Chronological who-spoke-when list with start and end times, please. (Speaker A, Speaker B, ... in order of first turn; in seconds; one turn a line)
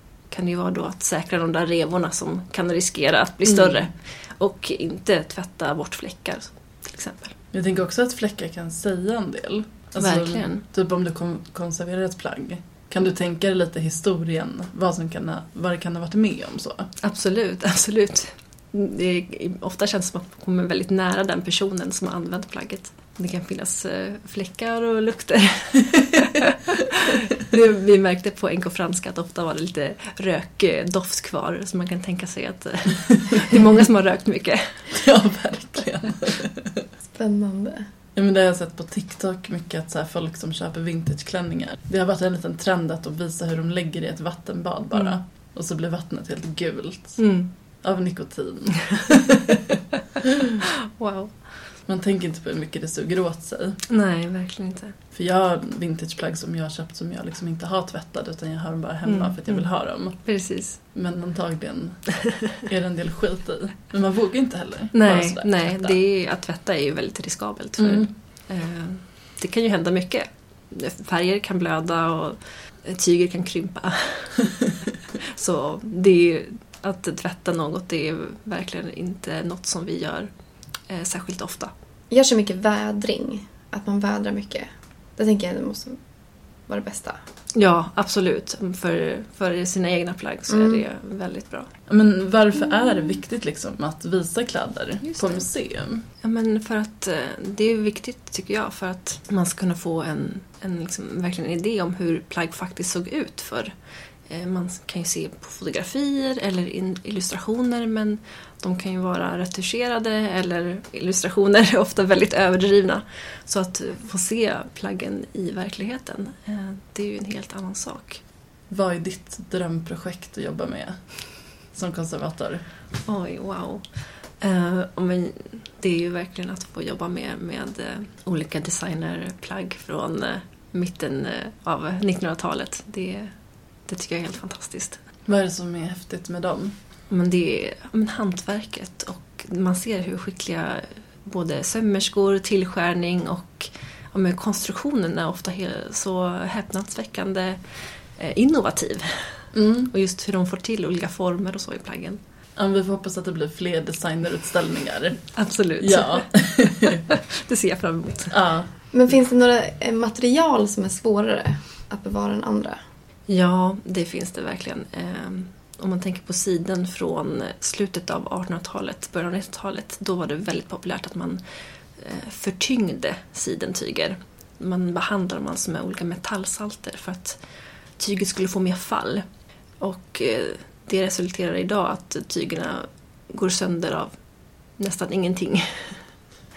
Speaker A: 0.3-7.4
Speaker B: 3.5-3.9
Speaker B: 7.5-16.9
Speaker A: 10.0-10.7
Speaker A: 17.0-35.0
Speaker B: 34.9-36.9
Speaker C: 37.2-37.9
Speaker B: 38.2-49.8
Speaker A: 44.9-45.2
Speaker A: 47.2-47.5
Speaker A: 51.0-51.5
Speaker B: 51.9-53.8
Speaker A: 53.9-55.0
Speaker B: 55.1-60.3
Speaker A: 59.0-60.8
Speaker B: 60.9-66.0
Speaker A: 64.9-74.6
Speaker B: 67.8-68.1
Speaker A: 75.3-80.3
Speaker A: 80.9-81.7
Speaker C: 82.1-86.0
Speaker C: 86.7-87.2
Speaker A: 87.5-91.7
Speaker C: 90.5-90.8
Speaker B: 91.9-96.0
Speaker A: 95.0-95.5
Speaker A: 96.2-103.7
Speaker A: 104.3-118.2
Speaker B: 118.7-122.6
Speaker A: 123.0-133.3
Speaker A: 133.9-135.0
Speaker B: 135.3-136.8
Speaker A: 137.1-152.2
Speaker B: 149.5-149.9
Speaker B: 152.6-157.0
Speaker A: 155.3-158.4
Speaker B: 158.3-158.7
Speaker C: 158.9-162.8
Speaker A: 163.3-171.4
Speaker A: 172.0-177.4
Speaker A: 178.0-179.2
Speaker A: 179.8-184.1
Speaker A: 184.8-186.1